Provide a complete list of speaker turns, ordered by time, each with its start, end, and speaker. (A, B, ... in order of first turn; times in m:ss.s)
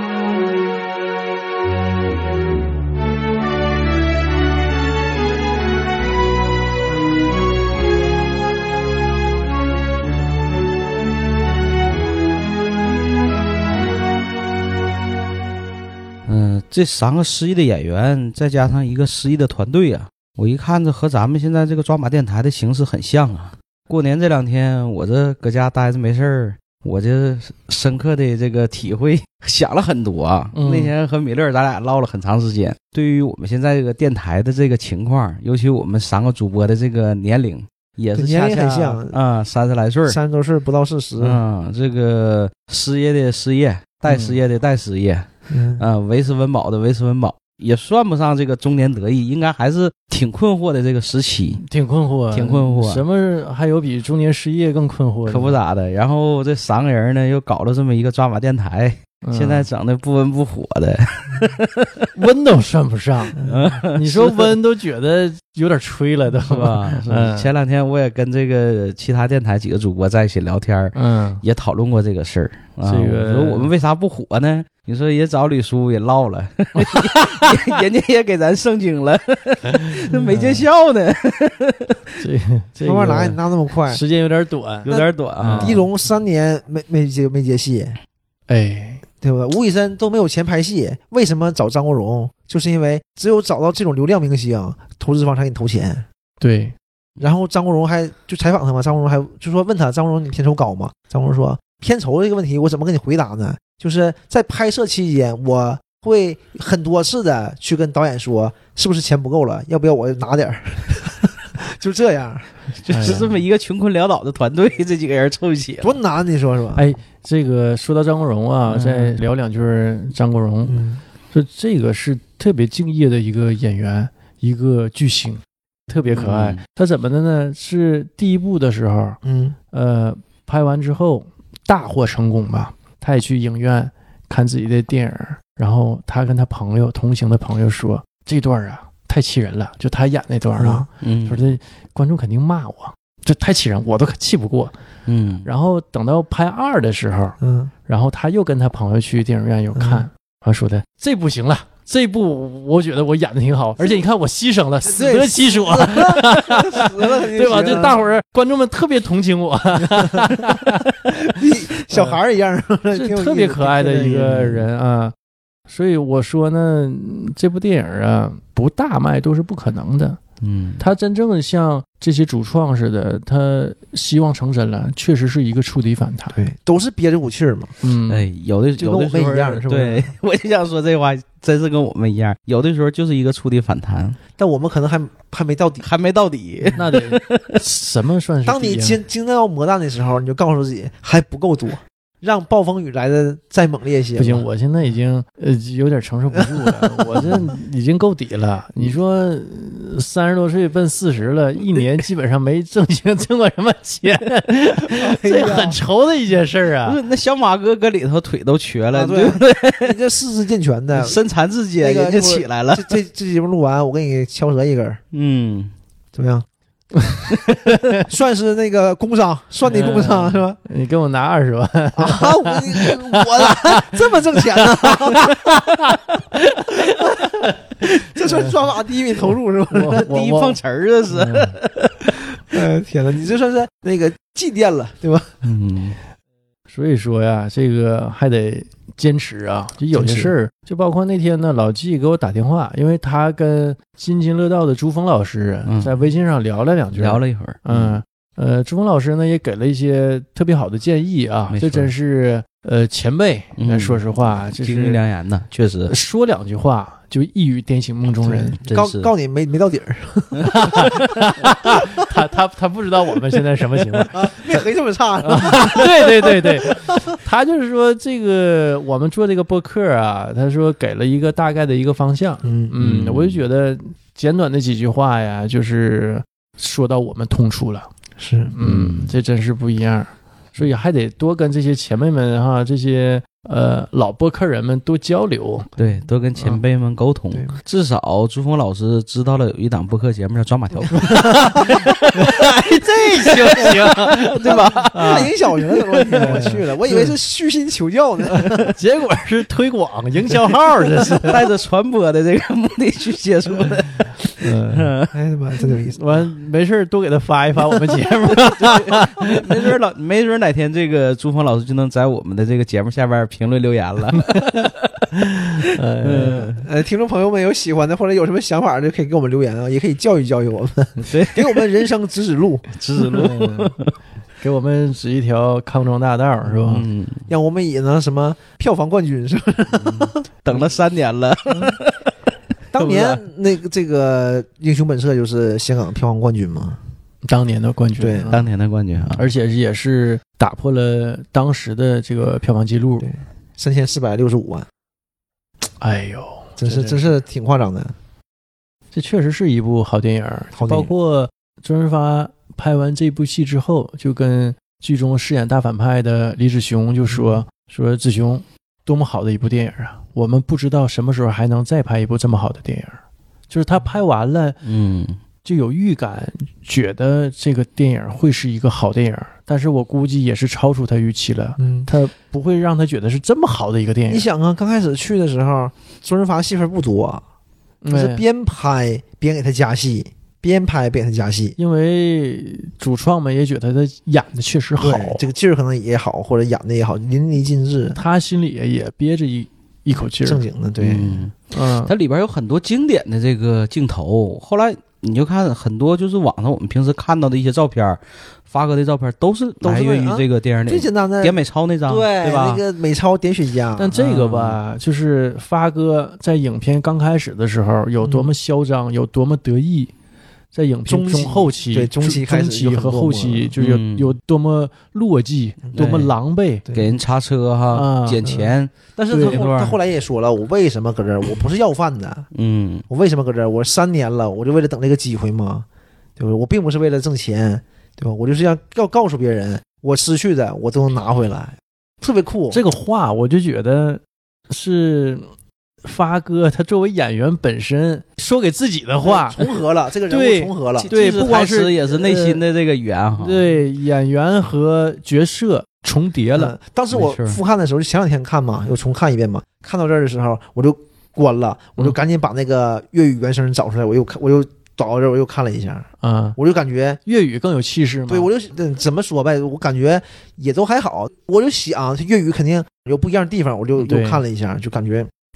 0:16.3-0:40.2 A
0:30.5-0:30.9 B
0:38.1-0:39.2 C
0:40.0-0:41.4 C
0:41.2-0:51.6 A
0:44.1-0:44.3 C
0:45.5-0:45.8 C
0:51.6-0:55.6 B
0:52.3-0:53.0 A
0:55.2-1:02.1 A
0:59.2-0:59.6 B
1:02.1-1:07.5 B
1:03.4-1:04.5 A
1:03.4-1:03.8 C
1:06.4-1:22.0 A
1:10.9-1:11.4 B
1:12.8-1:13.7 B
1:16.8-1:17.5 B
1:20.2-1:20.6 B
1:22.2-1:25.8 B
1:22.8-1:24.0 C
1:24.8-1:25.8 A
1:24.9-1:28.0 C
1:28.5-1:29.0 B
1:29.2-1:36.0 C
1:36.4-1:36.7 B
1:37.2-1:53.2 C
1:52.8-1:56.0 A
1:52.9-1:53.3 B
1:55.8-1:56.8 C
1:56.7-2:09.2 B
1:58.7-1:59.2 A
2:00.7-2:01.0 C
2:06.1-2:06.6 A
2:09.2-2:09.6 C
2:09.7-2:24.7 B
2:20.6-2:20.8 C
2:21.0-2:21.4 A
2:25.0-2:25.5 A
2:25.4-2:41.1 B
2:27.4-2:27.7 C
2:29.7-2:30.1 C
2:34.8-2:38.0 C
2:39.9-2:40.3 C
2:41.0-2:44.6 C
2:41.9-2:42.2 B
2:42.9-2:45.1 B
2:45.7-2:50.2 B
2:50.4-2:50.8 A
2:50.8-2:56.4 B
2:56.3-2:57.7 C
2:57.8-2:58.3 B
2:58.1-3:04.2 A
2:58.8-3:00.1 C
3:04.4-3:05.9 C
3:05.8-3:07.6 A
3:06.7-3:09.0 B
3:08.4-3:14.4 C
3:14.2-3:27.0 B
3:16.3-3:17.4 C
3:24.9-3:25.8 C
3:26.8-3:30.0 A
3:28.9-3:31.2 C
3:30.9-3:32.9 A
3:31.8-3:35.0 C
3:35.1-3:35.7 A
3:36.1-3:36.4 C
3:37.0-3:38.0 B
3:38.0-3:40.6 C
3:39.7-3:48.6 B
3:42.0-3:45.5 C
3:47.0-3:47.3 C
3:47.8-3:50.2 C
3:49.7-3:50.6 B
3:49.9-3:52.2 A
3:51.1-3:51.6 B
3:52.5-3:55.3 C
3:55.4-3:56.0 A
3:56.7-4:15.0 B
3:59.9-4:00.3 C
4:05.7-4:05.9 A
4:06.9-4:08.0 A
4:11.5-4:11.9 A
4:13.6-4:15.9 A
4:15.9-4:18.6 B
4:18.2-4:21.0 C
4:18.6-4:19.1 A
4:20.4-4:24.3 B
4:24.1-4:27.1 C
4:25.2-4:37.9 B
4:32.4-4:32.7 C
4:32.8-4:33.4 A
4:38.2-4:38.8 C
4:38.5-4:45.7 B
4:45.8-4:55.3 A
4:47.3-4:47.6 C
4:50.9-4:55.3 B
4:51.2-4:51.8 C
4:54.4-4:58.7 C
4:56.0-4:57.1 B
4:56.1-4:56.4 A
4:58.3-5:01.4 B
5:01.2-5:05.1 A
5:04.4-5:04.9 B
5:05.1-5:06.2 C
5:06.0-5:09.6 B
5:08.0-5:14.7 A
5:14.2-5:16.6 B
5:16.0-5:16.5 A
5:16.1-5:23.7 C
5:21.0-5:21.6 A
5:22.7-5:23.9 A
5:23.2-5:23.6 B
5:24.4-5:26.8 B
5:26.6-5:27.3 A
5:27.3-5:30.7 C
5:30.4-5:32.1 A
5:32.7-5:36.8 C
5:32.7-5:33.2 A
5:37.2-5:38.5 B
5:38.0-5:38.4 C
5:38.3-5:39.3 A
5:39.2-5:43.1 B
5:43.0-5:44.7 C
5:45.8-5:47.1 B
5:46.6-5:48.0 C
5:48.9-6:03.0 B
5:50.5-5:50.9 C
5:57.1-5:57.4 C
6:03.5-6:04.6 B
6:04.6-6:05.2 A
6:05.4-6:14.2 B
6:11.6-6:11.9 C
6:14.1-6:17.2 C
6:17.8-6:18.2 B
6:17.9-6:21.6 C
6:21.6-6:25.2 B
6:24.8-6:28.0 C
6:27.9-6:30.4 B
6:30.2-6:31.2 C
6:30.8-6:42.6 A
6:31.5-6:31.9 B
6:39.6-6:44.0 C
6:43.8-6:49.9 B
6:44.0-6:44.6 A
6:48.0-6:48.3 C
6:50.5-6:56.6 B
6:50.8-6:53.5 C
6:53.6-6:54.1 A
6:55.7-6:56.1 A
6:56.7-6:57.0 C
6:56.7-6:59.8 A
6:57.7-6:58.2 B
6:58.2-7:02.2 C
6:59.1-6:59.4 B
7:02.3-7:02.8 A
7:02.9-7:05.6 C
7:06.2-7:12.6 C
7:12.5-7:15.3 B
7:15.8-7:19.5 B
7:19.0-7:21.0 C
7:20.1-7:22.4 B
7:20.8-7:23.5 A
7:23.2-7:26.6 B
7:26.4-7:37.0 C
7:26.9-7:27.4 A
7:36.0-7:36.4 B
7:37.0-7:38.3 B
7:38.1-7:45.1 C
7:43.8-7:44.2 B